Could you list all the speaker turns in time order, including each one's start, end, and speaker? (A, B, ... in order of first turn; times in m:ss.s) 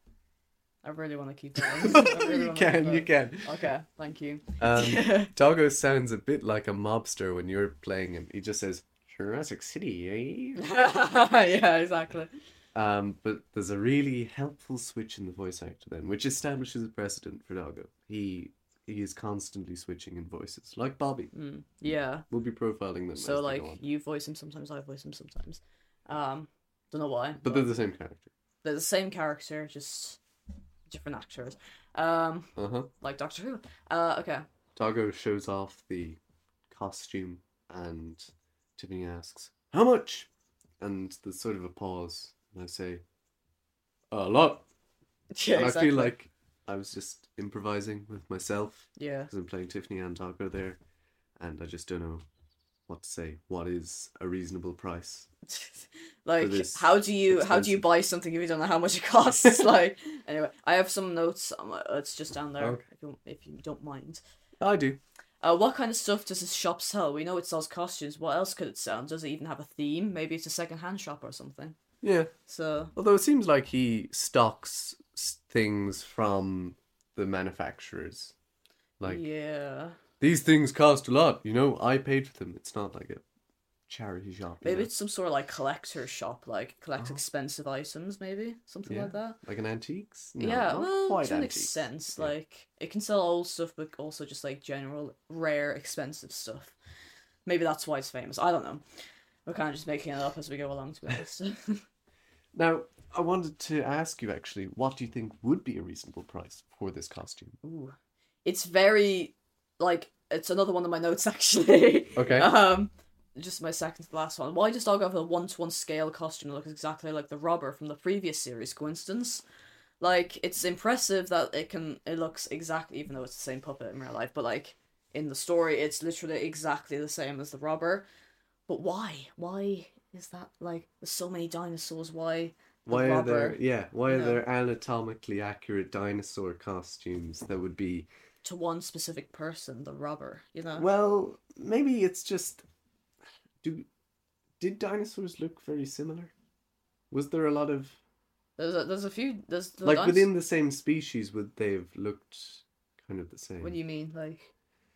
0:00.8-0:05.3 A
0:01.6-0:03.5 B
0:04.6-0:10.6 B
0:10.6-0:12.3 A
0:12.8-0:21.3 B
0:21.3-0:22.3 A
0:22.3-0:23.8 B
0:23.2-0:27.7 A
0:27.4-0:28.3 B
0:28.6-0:30.2 A
0:30.9-0:34.5 A
0:32.6-0:32.9 B
0:34.8-0:36.2 B
0:36.7-0:40.3 B
0:40.8-0:43.0 B
0:44.1-0:44.7 B
0:45.3-0:46.1 A
0:45.5-0:50.8 B
0:49.0-0:49.3 A
0:51.4-0:52.2 B
0:52.9-0:55.3 B
0:55.5-1:04.2 A
0:56.4-0:57.9 B
1:04.6-1:05.0 B
1:05.4-1:11.8 A
1:12.0-1:12.3 B
1:12.5-1:12.9 A
1:13.0-1:18.4 B
1:19.0-1:19.2 B
1:19.0-1:20.0 A
1:20.2-1:23.2 B
1:23.9-1:24.9 B
1:24.6-1:29.4 A
1:28.9-1:32.3 B
1:30.4-1:36.8 A
1:37.5-1:38.8 A
1:39.5-1:41.8 A
1:42.5-1:47.6 B
1:47.6-1:59.4 A
1:52.2-1:52.5 B
2:00.0-2:08.1 A
2:08.7-2:14.4 A
2:12.9-2:18.1 B
2:18.4-2:20.9 A
2:20.8-2:22.6 B
2:23.6-2:23.9 B
2:24.6-2:26.3 B
2:27.1-2:28.0 B
2:28.6-2:30.3 A
2:29.8-2:33.8 B
2:33.6-2:34.5 A